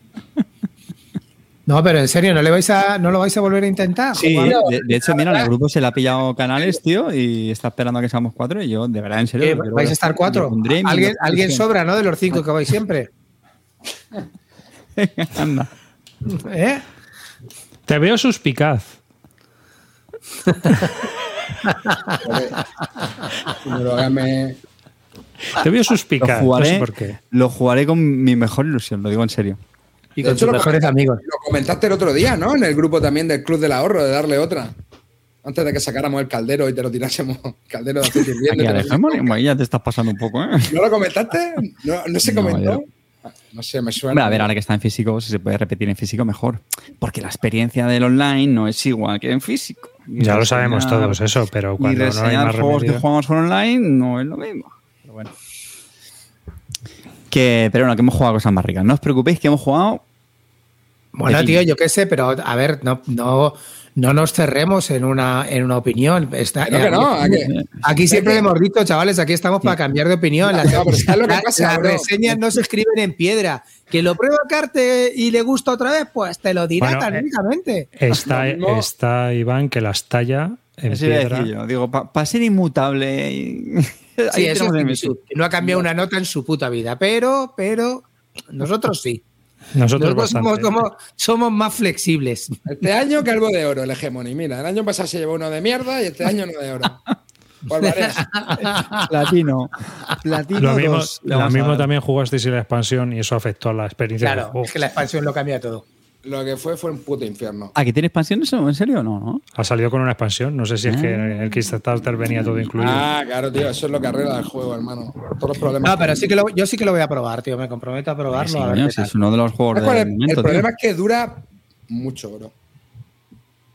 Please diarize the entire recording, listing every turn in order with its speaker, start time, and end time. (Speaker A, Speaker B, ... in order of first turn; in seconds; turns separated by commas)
Speaker A: 1.7-4.6, Speaker B: 4.2-11.7, Speaker C: 4.4-5.5, Speaker A: 9.4-13.1, Speaker B: 15.0-15.7, Speaker A: 16.2-16.8, Speaker D: 17.9-18.9, Speaker A: 21.7-22.2, Speaker C: 22.2-22.6, Speaker C: 23.4-24.6, Speaker D: 25.5-27.2, Speaker B: 26.2-29.6, Speaker A: 30.2-31.2, Speaker C: 30.2-34.8, Speaker C: 35.4-39.3, Speaker B: 38.5-40.7, Speaker C: 40.7-44.5, Speaker B: 42.2-42.8, Speaker B: 44.1-51.2, Speaker D: 50.2-53.0, Speaker B: 51.8-55.3, Speaker B: 57.3-60.0, Speaker A: 61.1-77.9, Speaker B: 61.3-61.6, Speaker C: 66.6-67.5, Speaker B: 67.2-67.8, Speaker C: 68.1-68.5, Speaker C: 70.5-72.1, Speaker D: 76.8-77.2, Speaker D: 78.0-81.5, Speaker C: 78.1-78.9, Speaker B: 80.9-85.2, Speaker A: 84.3-89.2, Speaker D: 89.7-90.7, Speaker A: 90.0-92.5, Speaker C: 92.7-97.0, Speaker C: 97.7-98.3, Speaker A: 97.7-99.1, Speaker B: 98.7-101.9, Speaker A: 100.6-100.9, Speaker D: 100.6-104.7, Speaker A: 104.2-105.8, Speaker C: 106.2-107.7, Speaker B: 107.7-109.4, Speaker D: 109.6-113.1, Speaker B: 110.9-111.4, Speaker C: 112.8-116.2, Speaker A: 115.8-119.1, Speaker B: 118.3-120.7, Speaker C: 119.8-122.5